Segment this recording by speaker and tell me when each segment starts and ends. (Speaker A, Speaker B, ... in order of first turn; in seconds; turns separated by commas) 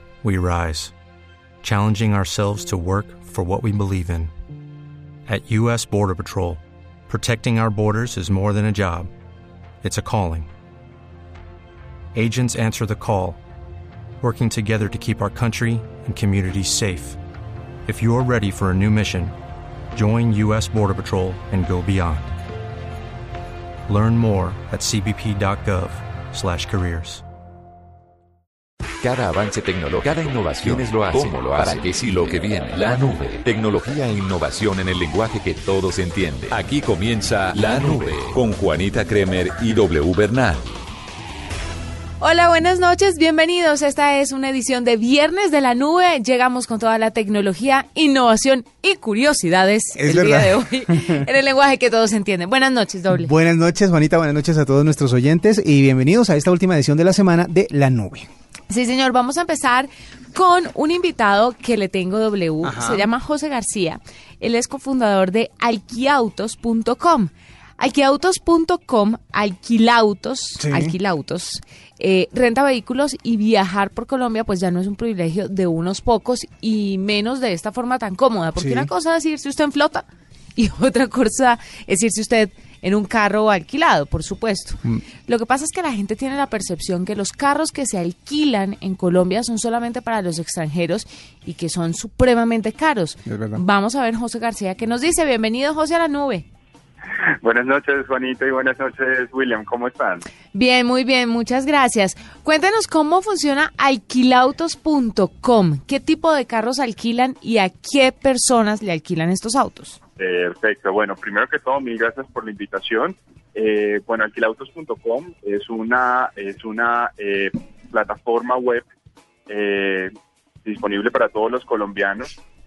Speaker A: 0.2-0.9, Speaker A: 1.6-4.3, Speaker A: 5.3-9.1, Speaker A: 9.8-10.5, Speaker A: 12.1-13.4, Speaker A: 14.2-17.2, Speaker A: 17.9-19.3, Speaker A: 19.9-22.3, Speaker A: 23.9-27.2, Speaker B: 29.0-40.7, Speaker C: 42.2-53.3, Speaker D: 50.0-51.2, Speaker D: 53.1-58.3, Speaker C: 58.7-80.0, Speaker D: 62.6-63.0, Speaker D: 70.6-70.9, Speaker D: 78.6-78.9, Speaker C: 80.5-96.5, Speaker D: 93.2-93.6, Speaker E: 97.4-100.2, Speaker C: 100.5-110.0, Speaker E: 110.2-118.8, Speaker E: 119.5-120.1, Speaker E: 120.6-122.3